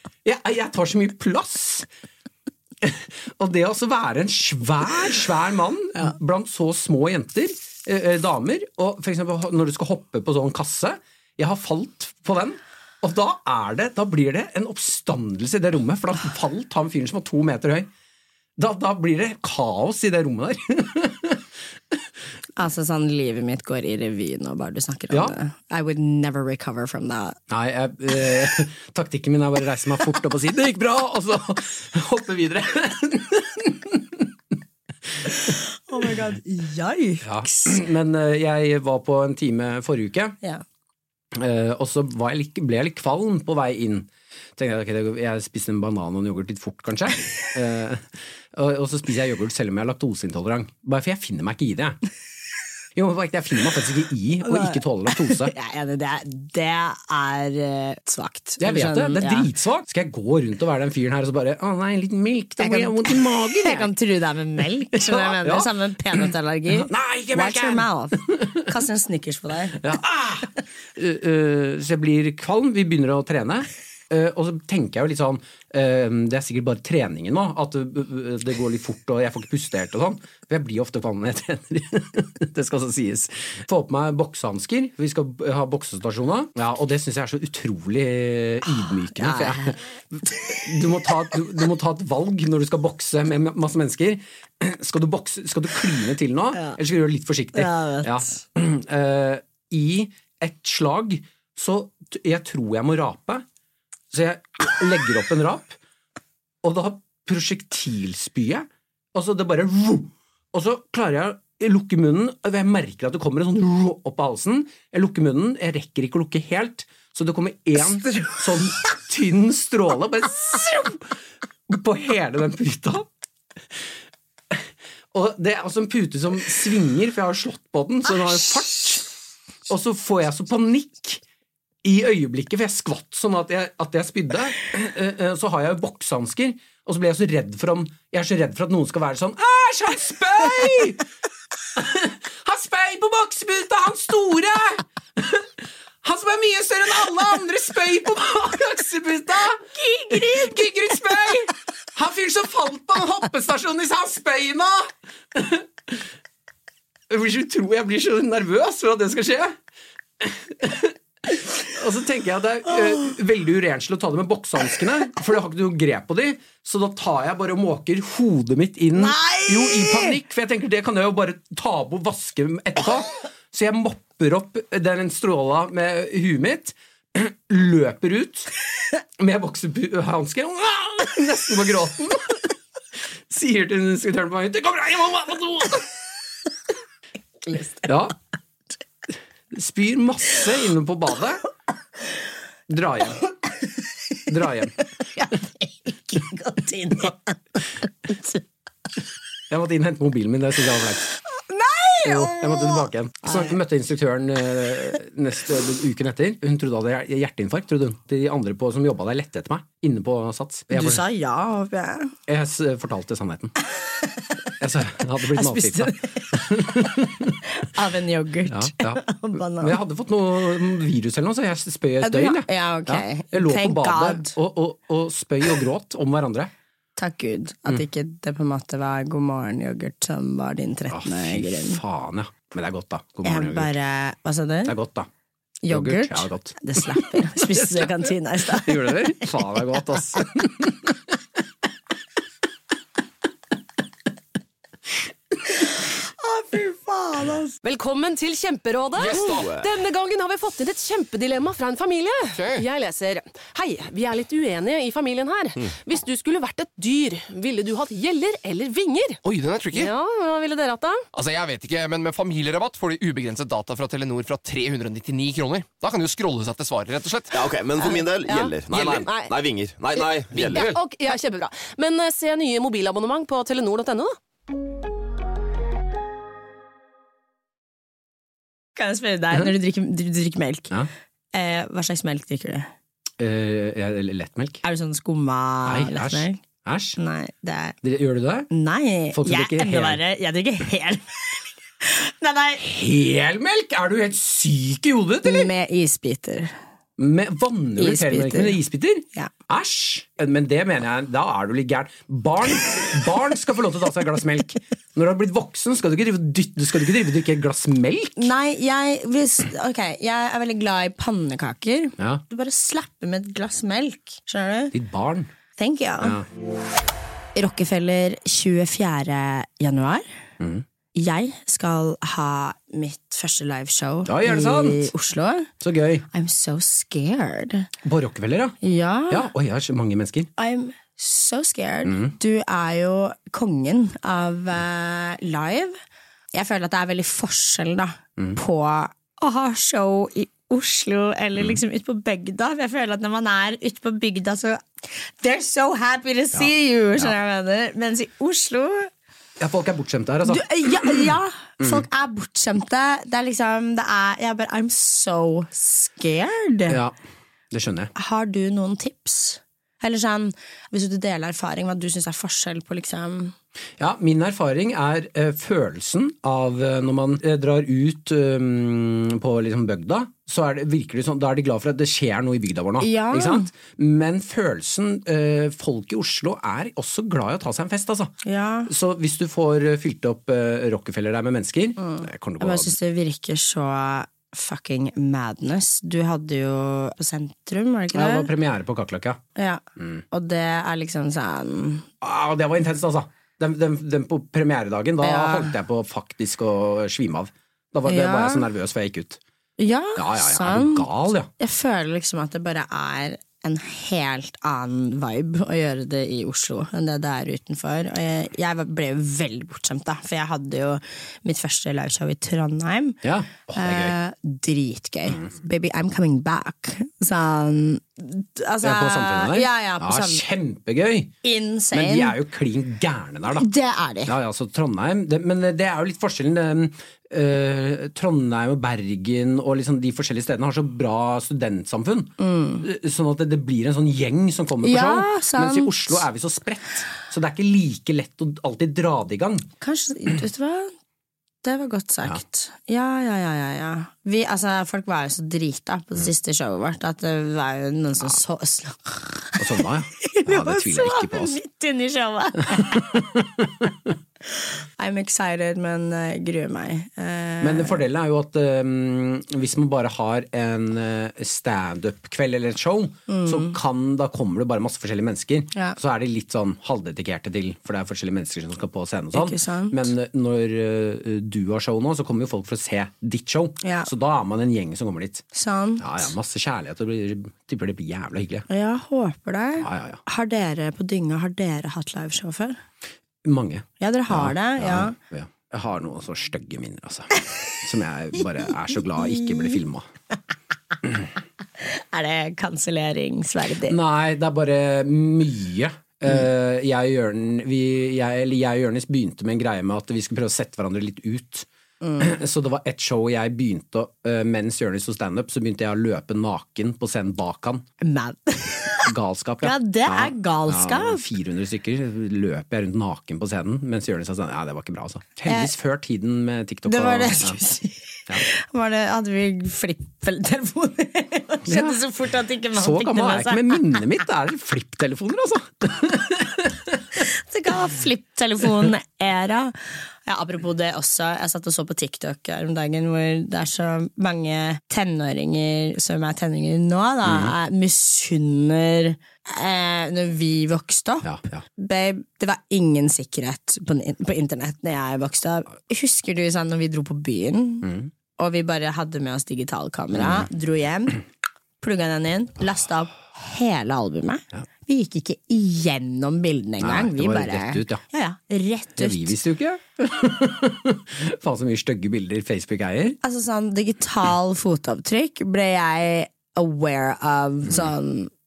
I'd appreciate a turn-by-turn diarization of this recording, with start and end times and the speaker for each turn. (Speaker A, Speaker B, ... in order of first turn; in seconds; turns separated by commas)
Speaker A: 0.2-1.9, Speaker A: 2.8-17.9, Speaker A: 18.6-22.0, Speaker B: 22.6-27.4, Speaker A: 27.5-34.3, Speaker B: 35.4-37.8, Speaker A: 37.2-40.4, Speaker A: 41.3-52.0, Speaker A: 53.0-55.5, Speaker B: 54.5-59.5, Speaker A: 58.6-63.9, Speaker B: 62.6-69.9, Speaker A: 64.9-68.7, Speaker A: 69.8-103.5, Speaker B: 89.0-89.8, Speaker B: 97.5-98.4, Speaker A: 104.1-105.8, Speaker A: 106.6-121.1, Speaker A: 121.7-123.1, Speaker A: 124.5-129.1, Speaker A: 129.7-131.2, Speaker A: 131.8-141.0, Speaker A: 141.8-145.5, Speaker A: 146.0-156.1, Speaker B: 149.8-150.7, Speaker A: 157.1-159.6, Speaker A: 160.2-178.5, Speaker B: 169.0-170.2, Speaker A: 179.2-182.5, Speaker A: 183.3-185.9, Speaker B: 187.4-187.9, Speaker A: 187.8-188.2, Speaker A: 189.5-191.4, Speaker A: 192.7-193.2, Speaker A: 194.3-194.7, Speaker B: 195.1-198.4, Speaker A: 199.5-201.1, Speaker B: 201.3-203.6, Speaker A: 202.0-211.0, Speaker B: 210.7-212.2, Speaker A: 212.3-213.6, Speaker A: 214.6-217.4, Speaker B: 215.3-216.9, Speaker B: 217.5-219.8, Speaker A: 218.5-226.5, Speaker B: 222.0-224.3, Speaker B: 227.0-231.8, Speaker A: 230.9-233.7, Speaker B: 233.2-234.8, Speaker A: 234.7-235.1, Speaker B: 235.6-239.3, Speaker A: 235.7-241.2, Speaker B: 245.9-247.6, Speaker C: 247.6-259.2, Speaker D: 249.0-249.5, Speaker E: 249.0-249.7, Speaker D: 252.3-252.7, Speaker D: 259.2-259.9, Speaker C: 259.7-261.1, Speaker D: 261.1-267.4, Speaker E: 267.3-270.7, Speaker C: 267.8-269.3, Speaker C: 270.0-274.2, Speaker D: 270.3-270.8, Speaker B: 278.8-280.7, Speaker B: 281.3-282.7, Speaker A: 283.2-284.6, Speaker B: 284.6-286.4, Speaker A: 285.6-287.0, Speaker B: 287.0-287.8, Speaker A: 287.8-288.5, Speaker B: 288.5-292.6, Speaker A: 289.1-290.0, Speaker A: 292.6-295.5, Speaker B: 295.2-296.5, Speaker A: 297.0-308.3, Speaker B: 297.8-298.6, Speaker B: 308.2-314.7, Speaker A: 314.7-315.3, Speaker B: 315.6-316.2, Speaker A: 316.0-316.3, Speaker B: 317.4-320.1, Speaker A: 320.4-320.6, Speaker B: 320.9-325.5, Speaker A: 324.1-324.9, Speaker A: 325.6-326.1, Speaker B: 326.1-327.7, Speaker A: 327.8-328.6, Speaker B: 328.6-329.3, Speaker A: 329.1-330.3, Speaker B: 330.4-335.8, Speaker A: 331.9-332.1, Speaker B: 336.3-348.9, Speaker A: 346.3-347.1, Speaker A: 349.4-351.1, Speaker B: 350.3-356.8, Speaker A: 356.7-356.9, Speaker A: 357.5-357.9, Speaker B: 357.9-363.3, Speaker A: 363.8-378.1, Speaker B: 372.8-373.5, Speaker B: 378.2-378.7, Speaker A: 378.7-382.8, Speaker B: 381.8-388.3, Speaker A: 387.9-389.2, Speaker B: 389.4-391.9, Speaker A: 389.8-390.0, Speaker A: 392.0-399.2, Speaker B: 395.0-395.6, Speaker B: 397.9-398.5, Speaker B: 399.6-413.0, Speaker A: 400.0-401.3, Speaker A: 413.0-413.9, Speaker B: 413.6-420.2, Speaker A: 418.6-421.1, Speaker B: 421.2-422.2, Speaker A: 421.7-423.5, Speaker B: 423.4-424.1, Speaker A: 424.1-439.5, Speaker B: 432.2-432.7, Speaker B: 434.6-436.0, Speaker B: 439.6-440.7, Speaker B: 441.4-453.0, Speaker A: 449.4-451.4, Speaker A: 452.5-453.9, Speaker B: 454.8-457.8, Speaker A: 457.4-475.2, Speaker B: 463.1-463.6, Speaker B: 469.1-469.9, Speaker B: 473.6-473.9, Speaker B: 475.3-476.1, Speaker A: 475.8-478.5, Speaker B: 478.5-482.6, Speaker A: 479.6-480.0, Speaker A: 483.2-489.9, Speaker B: 483.8-485.0, Speaker B: 489.1-489.5, Speaker B: 491.6-493.8, Speaker A: 493.7-501.5, Speaker B: 501.8-502.2, Speaker A: 502.0-507.7, Speaker B: 507.8-511.0, Speaker A: 508.9-517.4, Speaker B: 516.7-523.8, Speaker A: 521.5-521.8, Speaker A: 522.5-527.0, Speaker B: 527.0-551.0, Speaker A: 537.1-537.4, Speaker A: 541.0-541.4, Speaker A: 547.6-547.9, Speaker A: 549.9-550.3, Speaker B: 551.6-559.1, Speaker A: 556.6-557.8, Speaker A: 558.8-563.0, Speaker B: 563.0-568.1